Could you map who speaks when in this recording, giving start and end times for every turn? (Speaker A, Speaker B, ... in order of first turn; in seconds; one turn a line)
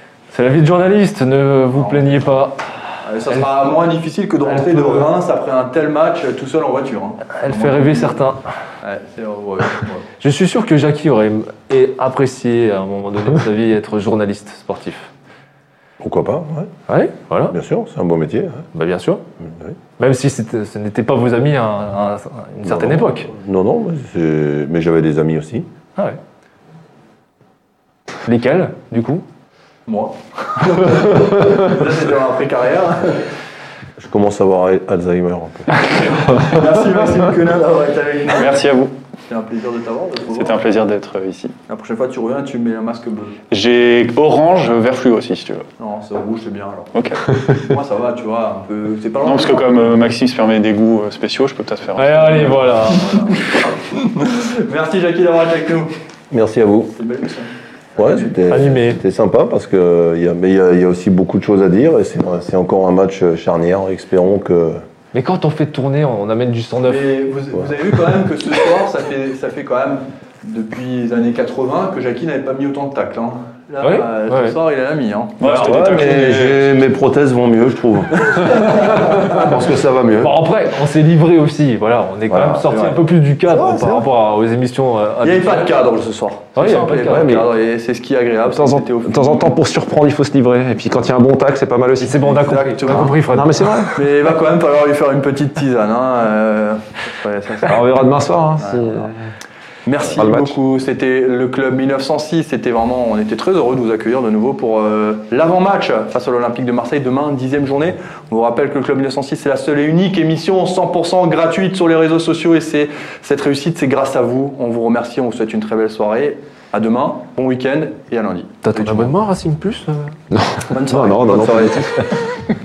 Speaker A: 0.3-2.7
Speaker B: 1.8-2.2
Speaker B: 3.0-8.2
Speaker A: 4.5-5.1
Speaker A: 7.4-8.5
Speaker B: 8.8-10.1
Speaker A: 10.2-15.1
Speaker C: 16.0-16.7
Speaker A: 16.9-17.6
Speaker C: 17.5-18.6
Speaker A: 18.7-19.2
Speaker A: 20.0-23.3
Speaker C: 22.6-25.7
Speaker A: 28.3-29.2
Speaker B: 29.9-33.3
Speaker C: 34.0-36.0
Speaker B: 35.8-38.6
Speaker D: 38.3-38.9
Speaker B: 39.3-40.6
Speaker D: 40.3-41.6
Speaker B: 41.7-43.4
Speaker D: 43.5-45.7
Speaker B: 45.8-49.9
Speaker D: 46.9-47.4
Speaker D: 49.2-52.5
Speaker A: 52.0-53.3
Speaker B: 52.5-55.9
Speaker C: 56.3-57.0
Speaker B: 56.9-58.2
Speaker C: 58.0-64.8
Speaker A: 58.5-59.0
Speaker A: 65.1-67.1
Speaker B: 66.9-76.1
Speaker A: 73.8-74.6
Speaker D: 75.4-76.8
Speaker C: 75.4-80.3
Speaker B: 78.2-79.4
Speaker A: 80.2-85.7
Speaker C: 82.3-82.7
Speaker B: 82.7-83.0
Speaker C: 83.7-84.0
Speaker B: 85.2-89.5
Speaker A: 86.6-87.3
Speaker E: 87.1-87.5
Speaker E: 88.5-92.3
Speaker A: 92.0-93.7
Speaker B: 92.3-93.2
Speaker E: 92.9-94.0
Speaker B: 93.9-97.8
Speaker E: 97.7-99.2
Speaker B: 98.6-99.1
Speaker B: 99.9-119.1
Speaker E: 100.1-100.6
Speaker A: 118.6-120.1
Speaker E: 120.3-122.2
Speaker B: 120.7-122.1